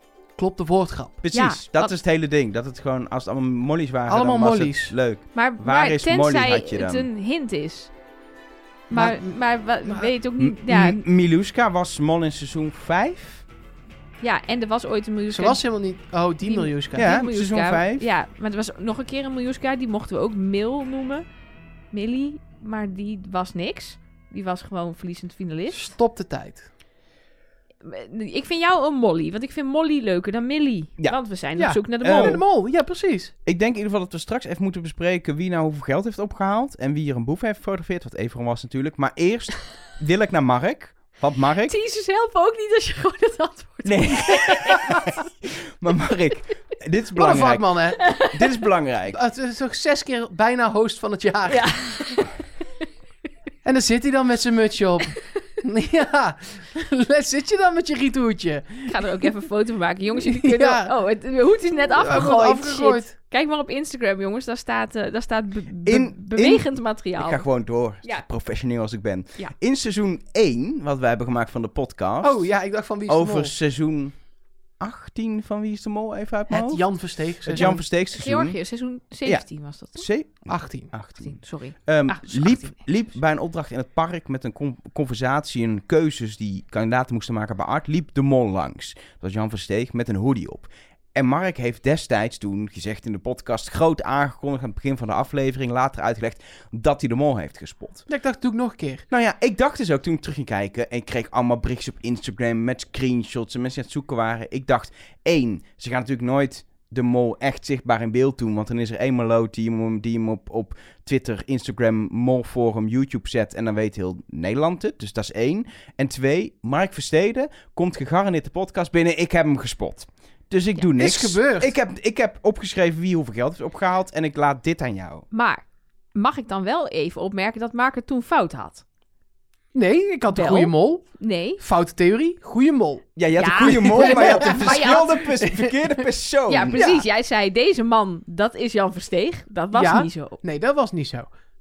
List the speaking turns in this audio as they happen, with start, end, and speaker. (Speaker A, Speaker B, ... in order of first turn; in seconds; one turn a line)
Speaker A: 0.3-1.2
Speaker B: 1.2-7.1
Speaker C: 1.3-1.9
Speaker A: 4.1-4.9
Speaker C: 5.3-7.9
Speaker C: 8.9-11.0
Speaker A: 8.9-10.1
Speaker B: 10.4-13.4
Speaker C: 14.2-15.6
Speaker A: 15.3-17.1
Speaker C: 16.4-21.2
Speaker B: 16.9-18.1
Speaker C: 21.9-25.9
Speaker A: 25.7-26.7
Speaker C: 27.8-32.4
Speaker A: 31.6-33.3
Speaker B: 32.0-32.4
Speaker B: 33.5-41.7
Speaker C: 41.6-45.1
Speaker B: 43.8-49.2
Speaker A: 47.1-48.0
Speaker C: 48.0-48.3
Speaker A: 49.1-51.7
Speaker C: 51.5-52.3
Speaker A: 53.6-59.3
Speaker C: 58.9-67.4
Speaker A: 60.2-60.9
Speaker A: 61.9-63.1
Speaker B: 65.8-72.5
Speaker A: 72.2-73.5
Speaker B: 73.1-74.2
Speaker B: 74.8-76.9
Speaker A: 76.5-77.8
Speaker B: 77.4-78.5
Speaker C: 77.5-80.1
Speaker B: 79.2-98.1
Speaker A: 80.5-80.9
Speaker C: 81.2-82.8
Speaker A: 98.1-99.0
Speaker B: 99.1-125.2
Speaker A: 121.0-121.8
Speaker C: 125.3-128.8
Speaker A: 129.7-131.1
Speaker C: 130.3-131.6
Speaker A: 131.6-135.7
Speaker B: 133.2-137.0
Speaker C: 133.4-135.3
Speaker C: 136.5-140.4
Speaker A: 139.7-141.3